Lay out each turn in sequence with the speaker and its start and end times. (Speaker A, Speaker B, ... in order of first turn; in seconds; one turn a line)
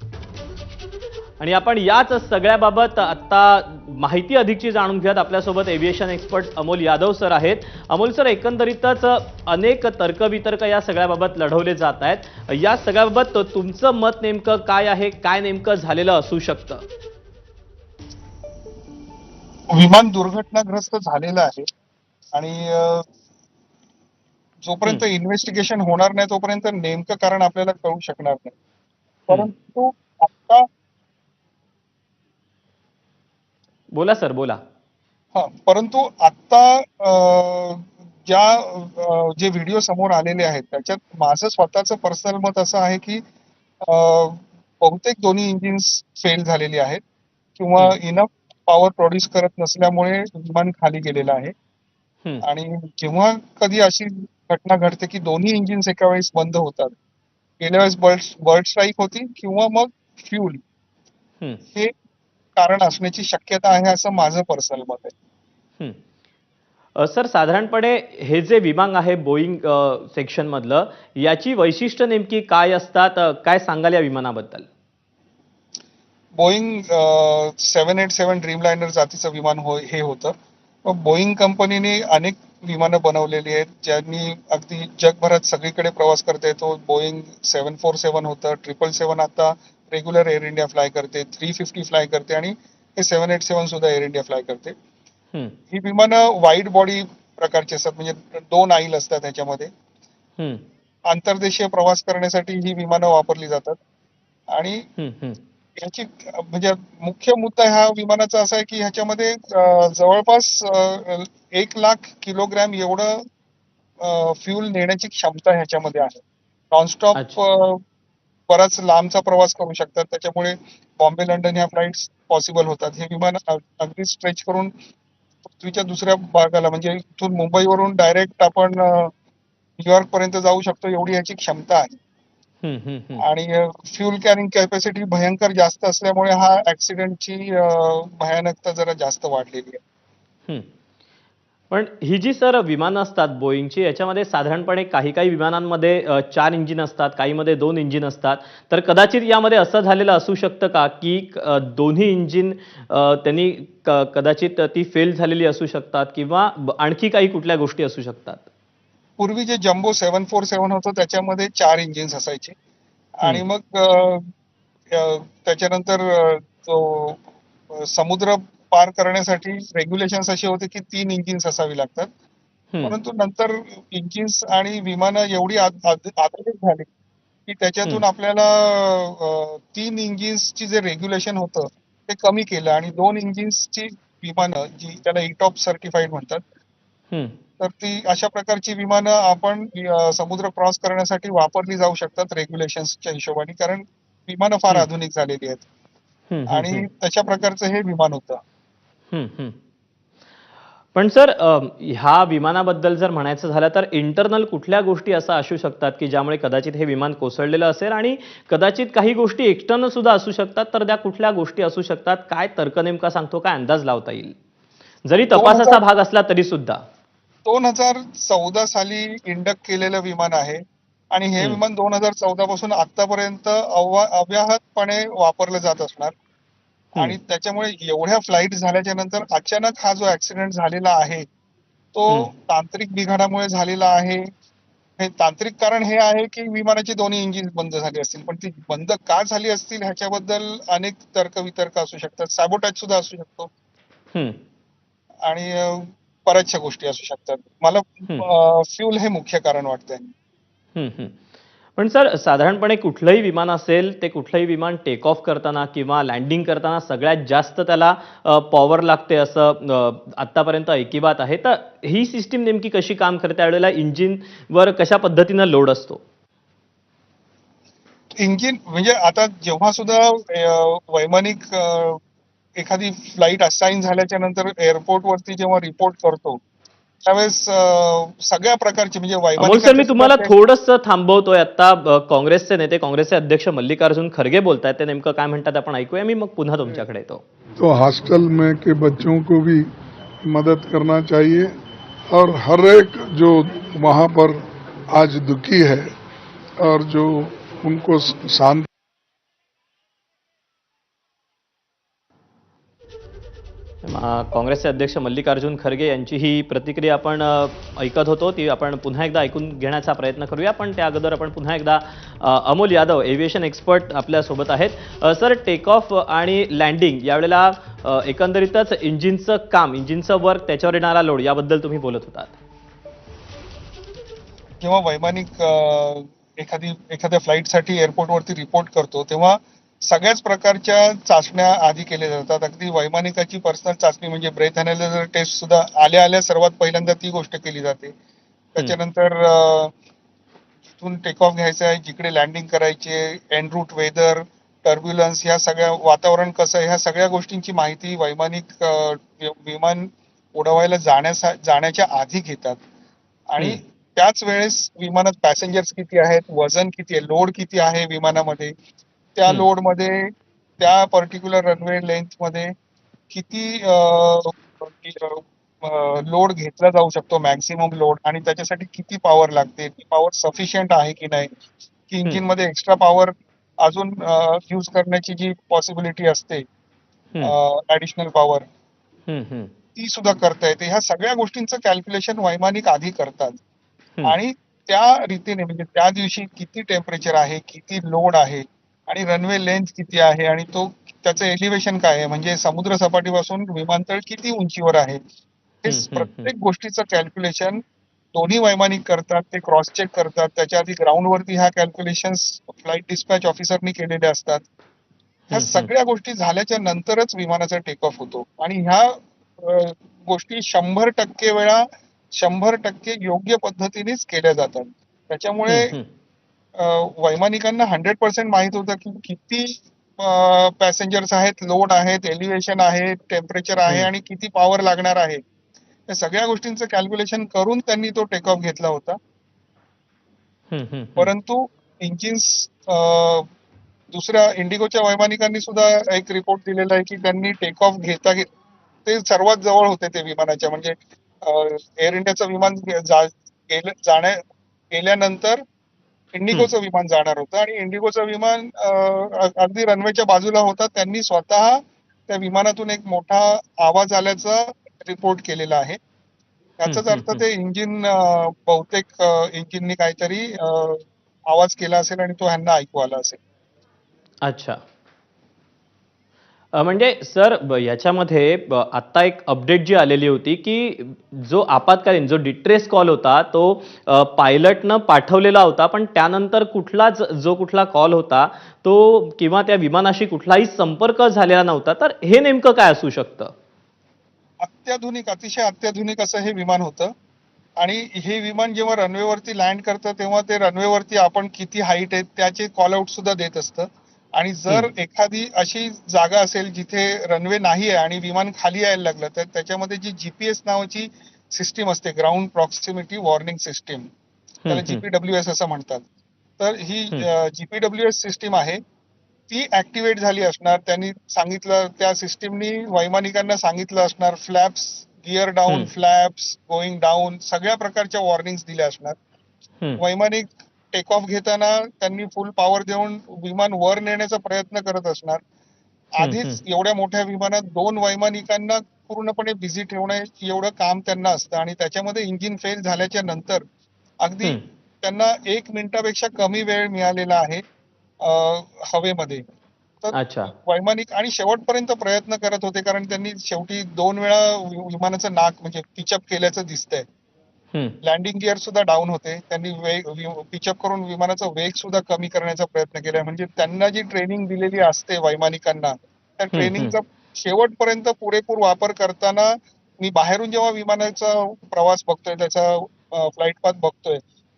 Speaker A: 1.4-16.8
Speaker B: 19.7-21.7
Speaker B: 22.3-23.1
Speaker B: 24.6-28.5
Speaker B: 29.3-30.7
Speaker A: 33.9-34.6
Speaker B: 35.3-43.2
Speaker B: 43.8-47.0
Speaker B: 47.6-51.5
Speaker B: 52.4-56.9
Speaker B: 57.6-60.6
Speaker B: 62.5-65.1
Speaker A: 67.0-74.7
Speaker B: 76.3-94.8
Speaker B: 95.7-99.7
Speaker B: 101.1-103.8
Speaker B: 104.5-104.9
Speaker A: 105.0-105.4
Speaker B: 105.8-113.2
Speaker B: 114.0-117.8
Speaker A: 117.1-117.4
Speaker B: 118.5-124.7
Speaker B: 125.5-129.1
Speaker B: 129.8-132.0
Speaker A: 132.6-133.2
Speaker B: 133.2-139.8
Speaker A: 141.7-158.4
Speaker B: 159.2-162.6
Speaker B: 163.2-164.3
Speaker B: 164.9-172.1
Speaker B: 172.8-176.9
Speaker B: 177.4-186.4
Speaker B: 187.6-195.6
Speaker A: 196.3-196.9
Speaker B: 196.5-198.4
Speaker A: 199.1-199.6
Speaker A: 200.9-214.3
Speaker A: 215.0-216.8
Speaker B: 215.3-215.8
Speaker B: 217.4-226.1
Speaker B: 226.9-231.3
Speaker B: 231.9-234.3
Speaker B: 235.0-243.5
Speaker B: 245.2-250.1
Speaker A: 250.8-251.2
Speaker A: 251.8-266.0
Speaker B: 268.1-272.0
Speaker B: 272.6-276.4
Speaker B: 277.0-280.4
Speaker A: 279.4-287.2
Speaker C: 287.6-289.7
Speaker C: 290.3-291.5
Speaker C: 292.1-295.9
Speaker C: 296.6-298.7
Speaker A: 303.8-322.4
Speaker B: 324.6-337.9
Speaker B: 338.5-339.7
Speaker B: 340.8-352.6
Speaker B: 353.3-358.5
Speaker B: 359.1-362.5
Speaker B: 363.1-371.3
Speaker B: 371.9-376.4
Speaker B: 377.2-378.4
Speaker A: 379.1-379.5
Speaker B: 379.8-383.4
Speaker B: 384.0-395.0
Speaker B: 395.6-397.6
Speaker A: 395.7-396.3
Speaker B: 398.1-404.4
Speaker B: 405.3-415.7
Speaker A: 405.3-405.7
Speaker A: 415.5-415.9
Speaker B: 416.6-425.2
Speaker B: 425.9-429.0
Speaker A: 430.5-431.1
Speaker B: 430.9-433.3
Speaker B: 433.9-438.3
Speaker B: 438.8-445.4
Speaker B: 446.1-455.8
Speaker B: 456.6-463.2
Speaker A: 456.6-457.2
Speaker A: 464.2-464.6
Speaker A: 466.5-483.3
Speaker B: 484.4-486.9
Speaker B: 487.6-503.9
Speaker A: 504.4-504.8
Speaker B: 504.5-505.9
Speaker B: 506.4-508.6
Speaker B: 509.3-519.0
Speaker B: 519.8-525.2
Speaker B: 525.9-533.4
Speaker A: 526.0-526.4
Speaker B: 534.0-537.4
Speaker B: 538.0-539.2
Speaker B: 539.8-546.9
Speaker A: 539.9-540.3
Speaker B: 547.8-564.0
Speaker A: 556.3-556.8